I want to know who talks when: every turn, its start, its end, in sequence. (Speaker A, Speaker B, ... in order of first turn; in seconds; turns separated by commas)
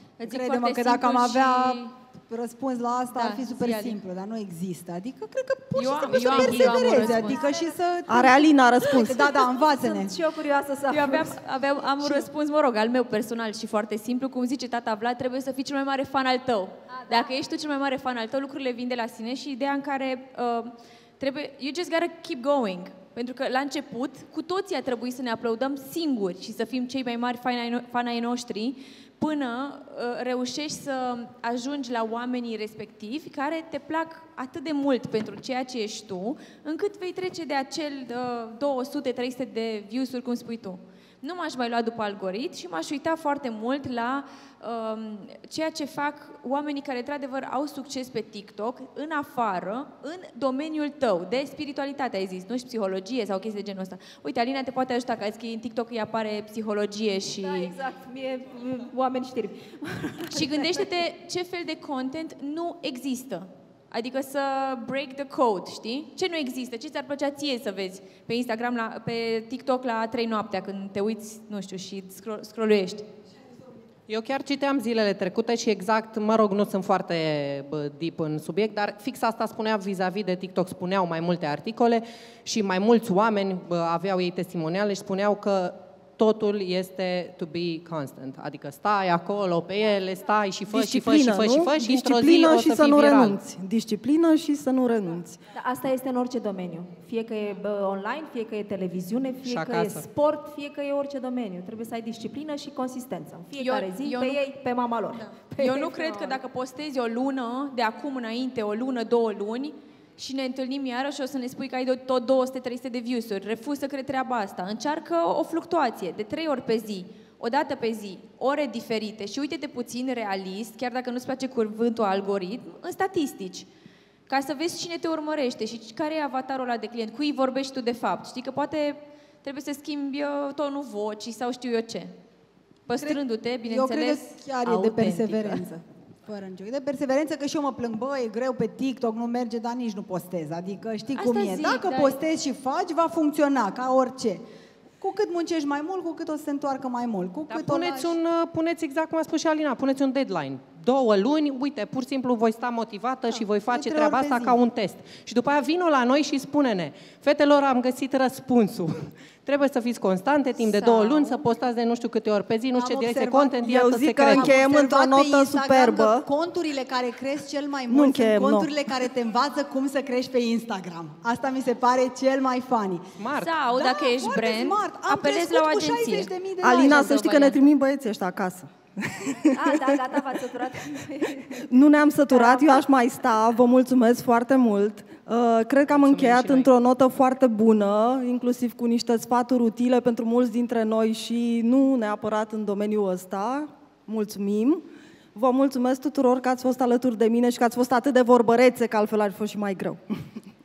Speaker A: 0.2-1.9, Speaker B: 0.2-10.1, Speaker A: 3.1-4.0, Speaker A: 5.7-7.5, Speaker C: 6.9-7.7, Speaker D: 8.1-9.2, Speaker C: 8.8-11.4, Speaker A: 10.9-57.7, Speaker C: 12.0-12.3, Speaker C: 16.9-17.3, Speaker C: 57.4-60.9, Speaker A: 60.3-73.1, Speaker E: 74.1-93.4, Speaker D: 90.7-95.4, Speaker C: 95.5-106.4, Speaker E: 99.5-100.0, Speaker A: 103.5-104.4, Speaker A: 105.4-123.7, Speaker A: 124.3-132.1, Speaker A: 132.9-135.6, Speaker B: 132.9-144.4, Speaker A: 141.1-142.2, Speaker B: 145.0-148.2, Speaker E: 147.5-164.6, Speaker B: 153.7-154.6, Speaker B: 162.7-163.6, Speaker D: 163.6-166.2, Speaker B: 164.2-173.1, Speaker D: 167.9-168.7, Speaker E: 173.2-173.6, Speaker A: 173.3-177.6, Speaker B: 173.7-177.6, Speaker D: 176.6-180.0, Speaker C: 179.5-181.7, Speaker D: 181.5-194.8, Speaker C: 182.3-182.8, Speaker E: 185.9-186.7, Speaker D: 195.3-200.0